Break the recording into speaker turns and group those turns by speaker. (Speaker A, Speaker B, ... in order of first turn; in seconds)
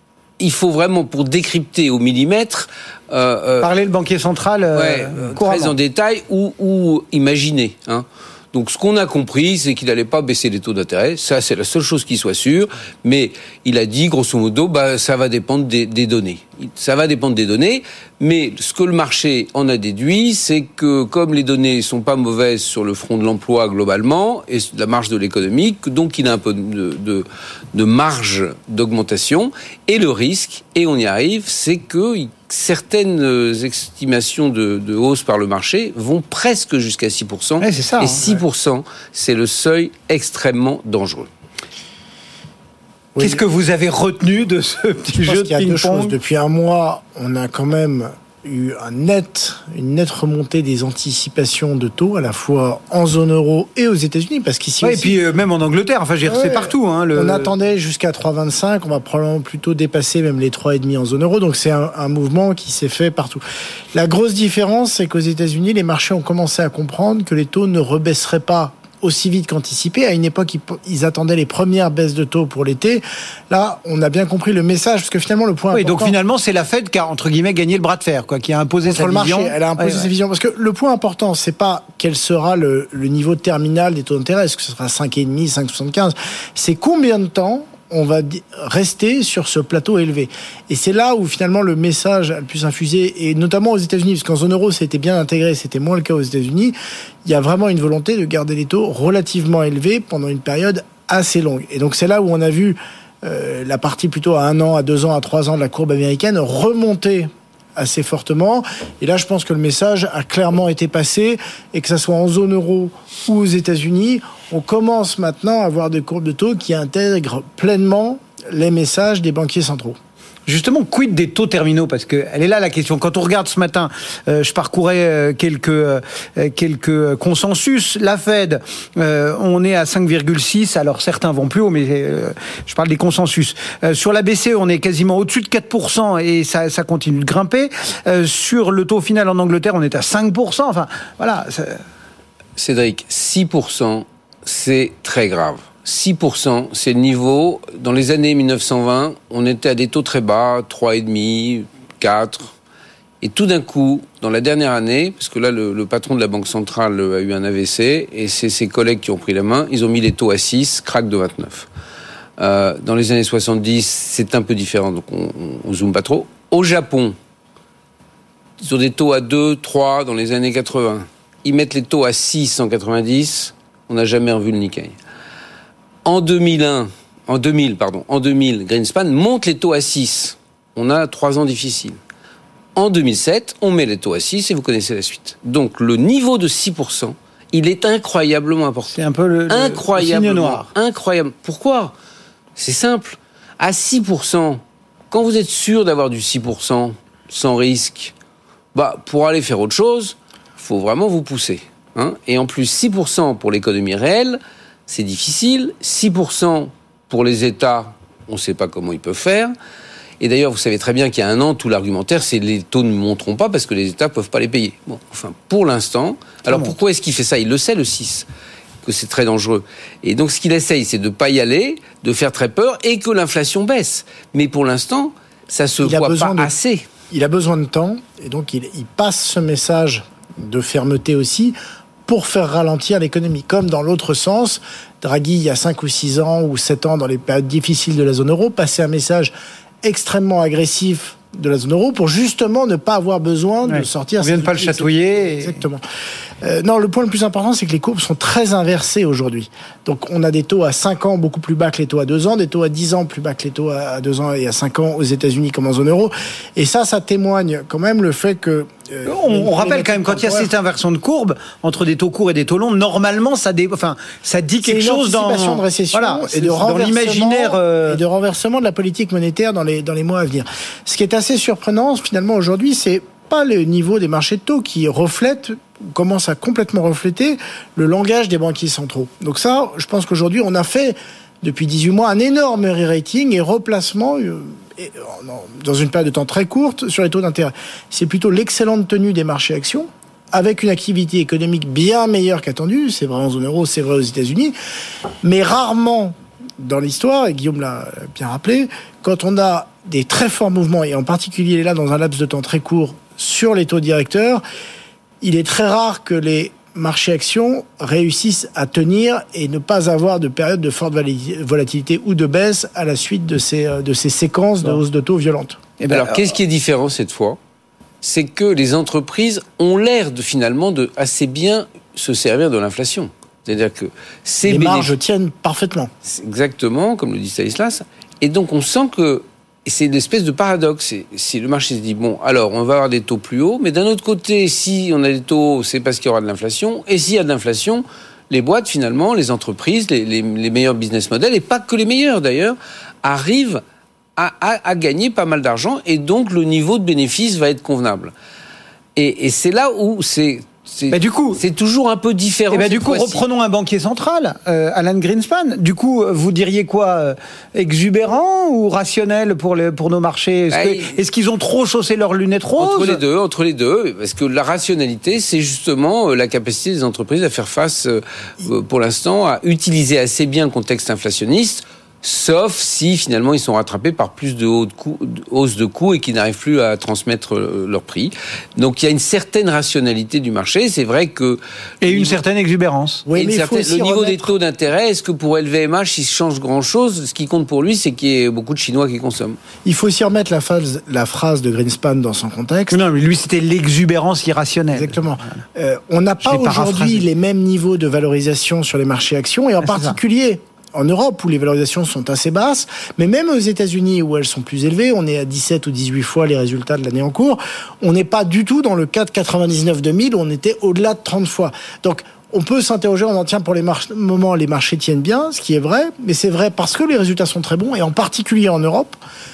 Speaker A: 0.4-3.7, 4.7-41.3, 142.6-152.5, 153.2-161.7, 162.4-167.2, 168.6-174.9, 176.0-182.0, 182.7-191.9, 192.6-198.1, 198.7-209.5, 210.2-218.3, 218.8-226.8, 315.9-317.4, 318.0-324.9, 326.0-343.6, 344.2-348.1, 348.9-353.2, 360.5-361.0, 362.6-382.2, 383.1-389.4
Speaker B: 3.6-5.7, 37.6-38.3, 43.2-46.1, 54.8-57.5, 75.7-80.1, 120.5-141.8, 188.9-190.7, 216.5-216.7, 243.7-245.6, 259.1-268.0, 315.8-316.3, 350.9-351.4, 352.5-363.0, 381.8-383.1, 392.7-395.4, 396.2-397.0, 399.6-399.9
Speaker C: 43.1-43.4, 45.1-55.2, 56.2-63.4, 63.9-76.1, 78.9-120.0, 225.8-226.5, 227.1-245.8, 246.4-260.5, 264.6-294.6, 295.2-304.4, 305.2-315.6, 324.4-325.9, 383.1-384.3, 389.6-392.8, 394.7-419.0